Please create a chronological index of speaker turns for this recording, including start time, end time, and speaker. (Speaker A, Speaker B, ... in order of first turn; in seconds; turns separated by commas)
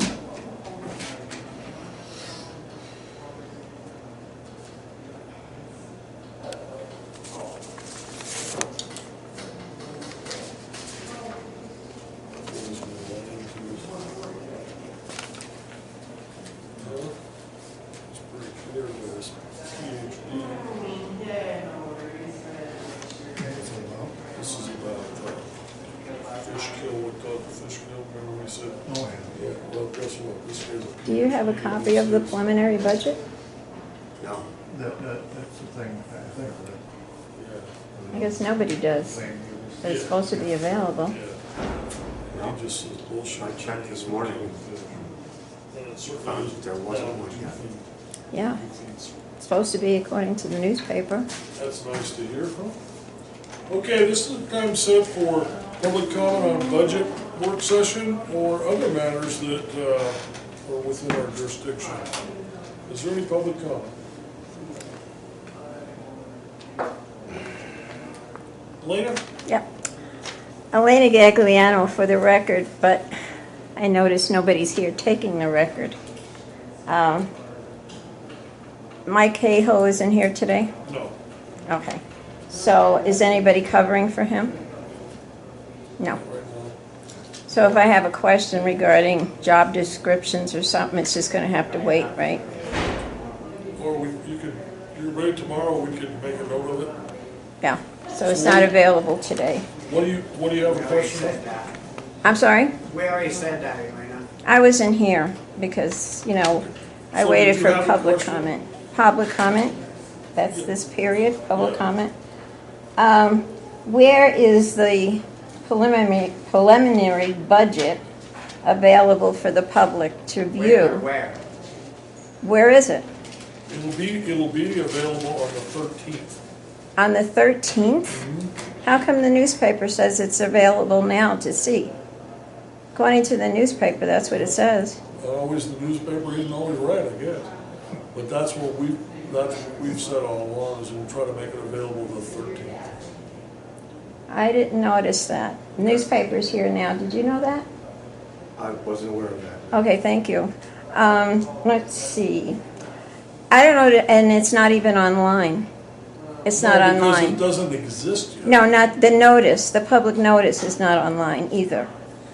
Speaker A: 12.4-14.1, Speaker A: 16.8-17.1, Speaker A: 18.1-20.7, Speaker B: 23.4-24.2, Speaker A: 24.2-25.5, Speaker A: 26.3-32.4, Speaker B: 28.9-29.4, Speaker C: 31.1-33.2, Speaker D: 34.2-34.5, Speaker B: 34.7-36.8, Speaker A: 37.3-37.7, Speaker B: 37.9-39.9, Speaker D: 38.0-38.3, Speaker C: 38.1-39.2, Speaker C: 39.8-41.1, Speaker A: 39.8-40.2, Speaker A: 41.0-41.4, Speaker A: 42.2-45.1, Speaker D: 42.3-42.6, Speaker D: 43.3-44.6, Speaker A: 45.7-47.8, Speaker D: 46.2-47.6, Speaker C: 48.3-48.6, Speaker A: 48.5-49.1, Speaker C: 49.4-51.3, Speaker A: 51.5-52.8, Speaker A: 53.7-62.1, Speaker A: 62.9-63.9, Speaker A: 68.8-69.2, Speaker C: 70.7-73.1, Speaker C: 73.7-76.0, Speaker C: 76.8-77.3, Speaker C: 79.0-80.7, Speaker A: 80.8-81.2, Speaker C: 81.7-84.5, Speaker A: 86.2-86.8, Speaker C: 87.5-92.4, Speaker A: 87.5-87.8, Speaker E: 91.7-93.7, Speaker A: 93.8-96.9, Speaker C: 97.6-99.7, Speaker A: 98.2-98.7, Speaker A: 99.8-101.4, Speaker E: 100.6-101.7, Speaker C: 102.2-102.7, Speaker E: 102.8-104.2, Speaker C: 104.4-109.8, Speaker A: 107.1-108.5, Speaker C: 110.3-112.1, Speaker A: 111.5-111.8, Speaker C: 113.0-118.0, Speaker C: 118.6-121.1, Speaker E: 120.5-121.4, Speaker C: 122.4-123.1, Speaker A: 123.7-126.4, Speaker C: 127.0-128.2, Speaker A: 128.1-128.5, Speaker C: 128.8-131.9, Speaker C: 132.9-135.0, Speaker A: 135.1-137.5, Speaker A: 138.1-142.9, Speaker C: 144.3-147.7, Speaker D: 148.6-149.8, Speaker C: 149.7-152.6, Speaker C: 153.5-155.7, Speaker A: 156.4-158.6, Speaker C: 156.4-157.4, Speaker C: 158.4-161.9